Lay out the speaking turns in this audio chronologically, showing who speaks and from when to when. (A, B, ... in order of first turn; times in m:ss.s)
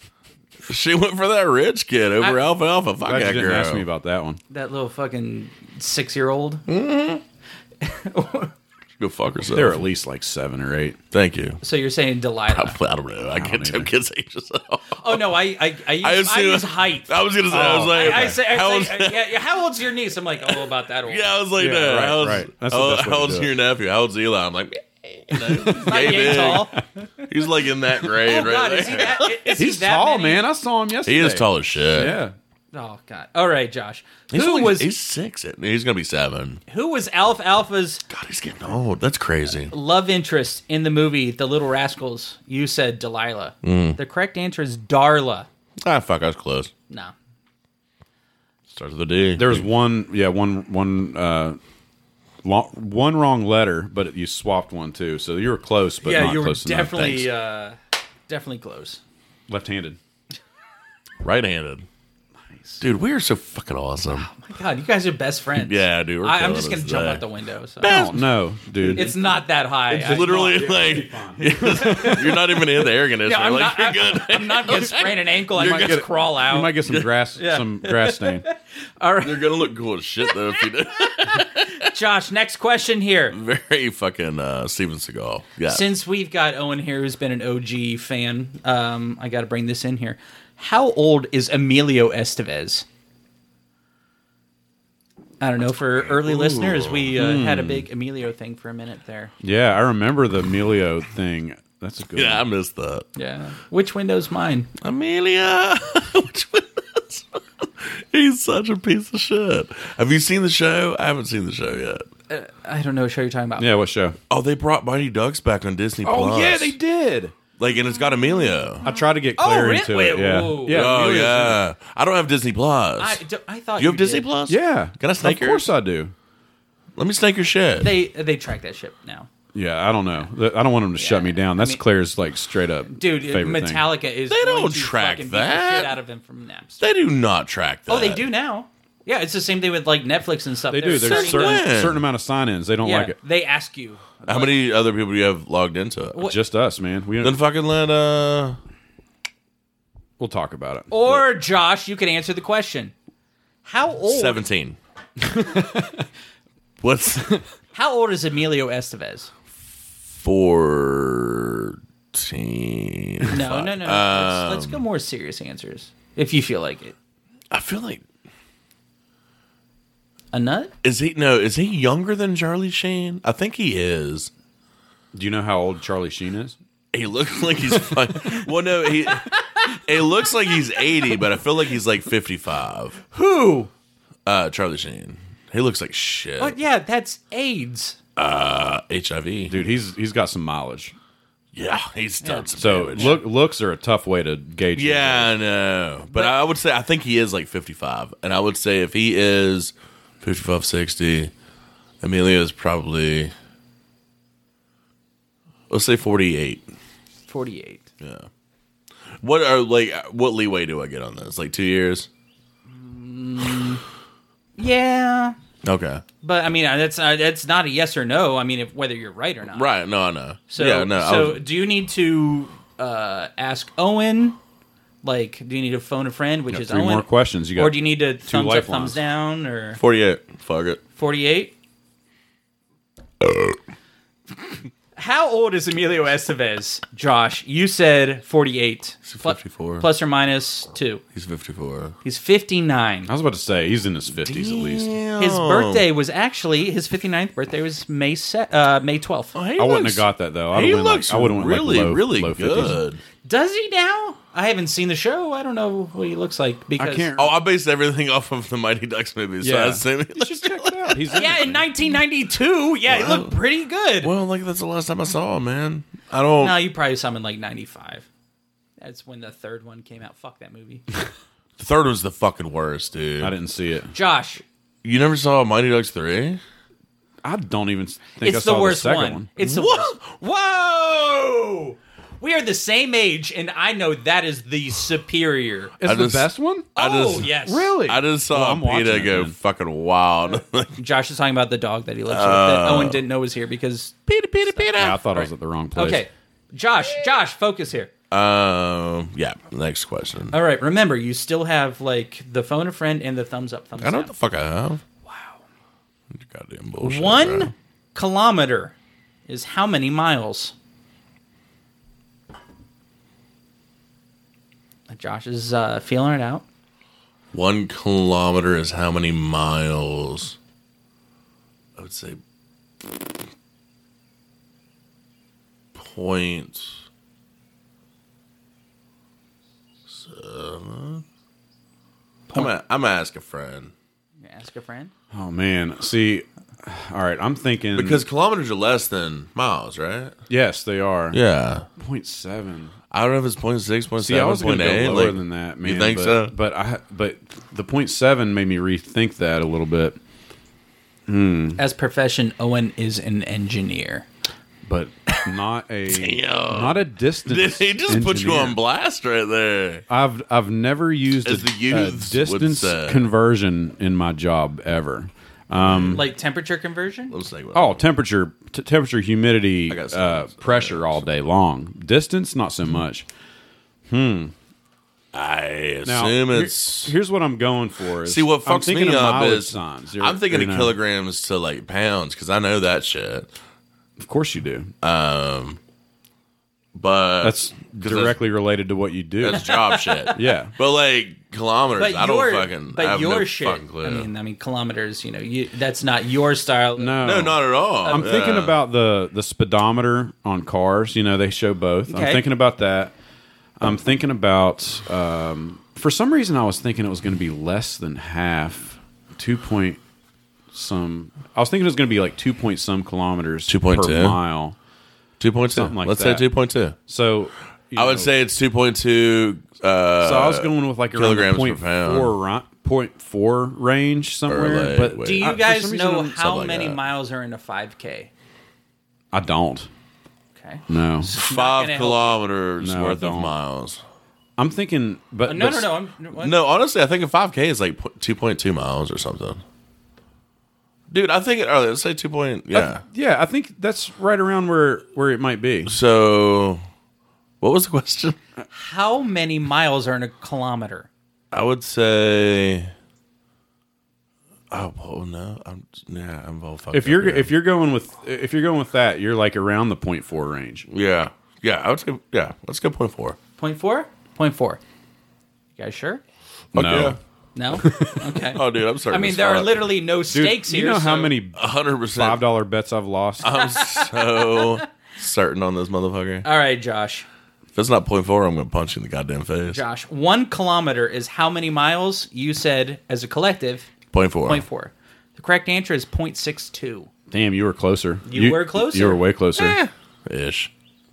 0:00.7-0:03.8 A
0:03.0-0:04.4 B
0:04.5-0:06.6 C
0:06.7-0:07.2 A
0:07.8-0:08.5 C
0:09.0-0:09.8 A
0:09.5-0:11.0 B
0:11.1-0:11.6 A
0:11.6-0:12.8 C
0:12.5-0:15.3 A
0:13.3-0:13.9 B
0:15.0-0:17.2 C
0:16.0-0:19.3 A
0:17.5-0:18.4 B
0:17.9-0:21.3 C
0:20.4-0:26.7 A
0:21.6-0:23.5 B
0:25.3-0:26.8 B
0:25.6-0:27.2 C
0:27.3-0:29.6 A
0:28.0-0:30.4 C
0:29.6-0:32.3 B
0:31.0-0:32.2 A
0:32.7-0:34.9 C
0:34.3-0:36.6 A
0:36.7-0:38.0 C
0:38.1-0:39.7 A
0:39.7-0:45.5 C
0:43.6-0:44.0 A
0:45.8-0:46.7 A
0:46.9-0:47.1 C
0:48.7-0:49.6 A
0:49.4-0:51.6 B
0:52.4-0:57.1 B
0:56.0-0:57.8 C
0:56.9-0:57.2 A
0:58.3-0:59.0 C
0:59.5-1:00.0 B
1:01.2-1:01.8 A
1:02.5-1:02.8 C
1:02.8-1:04.3 A
1:04.1-1:07.9 C
1:05.6-1:07.2 A
1:07.8-1:09.0 A
1:07.8-1:09.2 B
1:08.9-1:10.7 C
1:09.9-1:16.0 A
1:09.9-1:12.6 B
1:13.2-1:16.8 C
1:15.6-1:18.4 B
1:17.4-1:19.6 C
1:19.2-1:21.8 A
1:21.2-1:23.4 C
1:23.3-1:25.9 A
1:25.7-1:32.8 C
1:35.4-1:39.3 C
1:36.2-1:37.1 A
1:37.2-1:37.9 B
1:39.4-1:42.4 B
1:42.1-1:43.1 A
1:43.2-1:44.7 C
1:44.8-1:52.1 A
1:52.3-1:53.7 C
1:53.6-1:54.2 B
1:54.3-1:56.8 A
1:56.0-1:57.4 B
1:57.6-1:58.8 A
1:58.8-2:00.9 C
1:58.8-2:01.6 B
2:00.7-2:03.2 A
2:03.0-2:04.3 C
2:03.8-2:05.7 A
2:04.5-2:06.1 B
2:07.0-2:07.9 A
2:07.8-2:09.3 C
2:09.5-2:13.8 B
2:11.0-2:11.8 C
2:12.9-2:16.8 C
2:14.3-2:16.0 A
2:16.8-2:18.2 A
2:17.9-2:21.6 C
2:20.7-2:23.2 B
2:20.9-2:22.0 A
2:22.8-2:24.5 C
2:24.3-2:26.2 A
2:26.2-2:27.4 B
2:27.2-2:28.6 A
2:30.2-2:31.1 B
2:30.9-2:32.9 C
2:33.6-2:34.4 C
2:34.1-2:34.8 A
2:35.2-2:36.1 B
2:36.8-2:37.4 A
2:37.7-2:39.3 C
2:40.1-2:44.8 A
2:43.3-2:46.9 C
2:47.5-2:48.0 A
2:50.3-2:50.7 C
2:50.8-2:54.3 A
2:55.1-2:56.6 B
2:56.9-3:03.0 A
2:59.2-2:59.8 C
3:00.4-3:01.2 C
3:03.1-3:03.7 C
3:04.2-3:06.6 A
3:06.4-3:08.0 C
3:08.2-3:09.6 A
3:09.5-3:10.9 B
3:11.5-3:13.2 A
3:12.2-3:13.2 C
3:12.5-3:15.3 B
3:14.8-3:21.3 A
3:16.1-3:16.3 C
3:22.0-3:23.3 A
3:25.7-3:26.6 A
3:27.3-3:27.9 C
3:28.0-3:28.3 A
3:29.2-3:32.1 A
3:32.7-3:33.8 C
3:34.6-3:35.4 C
3:35.6-3:36.0 A
3:36.2-3:39.7 C
3:39.5-3:41.4 A
3:40.5-3:44.4 C
3:45.0-3:49.8 C
3:46.5-3:49.0 B
3:49.8-3:50.8 A
3:51.0-3:51.5 C
3:53.2-3:53.6 A
3:55.0-4:01.0 C
3:59.0-3:59.9 A
4:01.1-4:01.9 A
4:02.0-4:03.1 C
4:03.1-4:04.9 B
4:04.2-4:05.9 A
4:05.2-4:09.3 C
4:09.3-4:13.0 A
4:09.6-4:12.8 B
4:13.2-4:17.1 C
4:16.8-4:17.3 B
4:17.2-4:21.2 A
4:19.4-4:21.6 B
4:21.1-4:24.1 C
4:22.9-4:23.3 A
4:24.0-4:26.6 A
4:26.4-4:28.1 C
4:28.8-4:30.8 C
4:31.6-4:33.3 A
4:33.2-4:33.9 B
4:33.9-4:34.4 C
4:34.8-4:36.4 A
4:37.2-4:39.3 B
4:38.2-4:45.8 C
4:39.4-4:40.0 A
4:45.8-4:49.3 B
4:45.8-4:50.7 A
4:46.8-4:47.7 C
4:50.8-4:57.9 C
4:52.1-4:53.0 A
4:54.1-4:55.0 A
4:54.7-4:56.0 B
4:58.1-5:00.3 A
5:00.3-5:04.1 C
5:03.8-5:04.8 A
5:05.0-5:05.4 C
5:06.1-5:07.5 A
5:06.8-5:08.7 C
5:09.3-5:10.5 C
5:14.9-5:16.4 C
5:17.3-5:20.4 A
5:21.8-5:22.2 A
5:25.7-5:26.7 A
5:29.9-5:31.0 A
5:32.3-5:33.7 A
5:34.2-5:34.9 C
5:35.1-5:38.0 B
5:37.7-5:40.1 A
5:40.3-5:41.2 B
5:41.1-5:41.6 A
5:41.8-5:42.7 B
5:42.9-5:46.3 A
5:44.0-5:50.0 B
5:51.1-5:51.6 B
5:51.6-5:54.1 C
5:54.6-5:58.6 B
5:55.9-5:59.8 A
5:59.9-6:06.0 B
6:01.2-6:03.1 A
6:05.5-6:06.0 A
6:05.9-6:07.1 C
6:07.1-6:07.8 A
6:07.5-6:13.1 B
6:09.7-6:11.0 A
6:13.9-6:14.3 B
6:15.1-6:16.9 A
6:15.8-6:20.8 B
6:18.0-6:23.3 A
6:24.0-6:24.7 B
6:24.8-6:25.6 A
6:26.7-6:28.2 A
6:27.2-6:29.4 B
6:29.2-6:34.1 A
6:29.3-6:30.2 C
6:30.1-6:30.5 B
6:31.7-6:37.3 C
6:36.8-6:42.9 B
6:37.0-6:38.6 A
6:37.8-6:38.4 C
6:41.9-6:42.2 C
6:43.6-6:49.8 B
6:50.5-6:54.6 B
6:53.5-6:54.2 A
6:55.2-6:56.8 A
6:55.5-6:56.3 B
6:56.9-6:58.1 B
6:57.8-7:02.1 A
7:00.0-7:06.2 B
7:04.3-7:05.4 A
7:05.0-7:08.1 C
7:06.1-7:06.8 A
7:09.1-7:09.7 B
7:10.3-7:12.2 C
7:10.7-7:11.1 B
7:11.1-7:13.8 A
7:12.6-7:13.3 B
7:14.4-7:15.7 B
7:15.2-7:16.4 C
7:16.2-7:19.4 A
7:20.9-7:22.8 A
7:22.5-7:25.7 B
7:25.6-7:26.6 A
7:27.4-7:28.2 A
7:28.5-7:30.9 C
7:31.3-7:32.7 A
7:34.5-7:37.3 A
7:36.7-7:40.7 B
7:40.7-7:43.2 A
7:43.4-7:44.6 C
7:45.6-7:46.0 C
7:46.5-7:47.0 A
7:46.5-7:47.0 B
7:47.4-7:51.2 C
7:47.5-7:48.1 B
7:48.3-7:49.7 A
7:50.1-7:51.4 B
7:51.4-7:52.2 A
7:51.9-7:53.3 B
7:53.2-7:56.2 A
7:53.3-7:54.6 C
7:56.2-7:57.0 C
7:57.5-7:59.6 A
7:59.5-8:03.7 C
8:03.9-8:04.4 A
8:04.2-8:06.9 C
8:07.1-8:09.6 B
8:08.0-8:09.0 C
8:09.4-8:10.5 A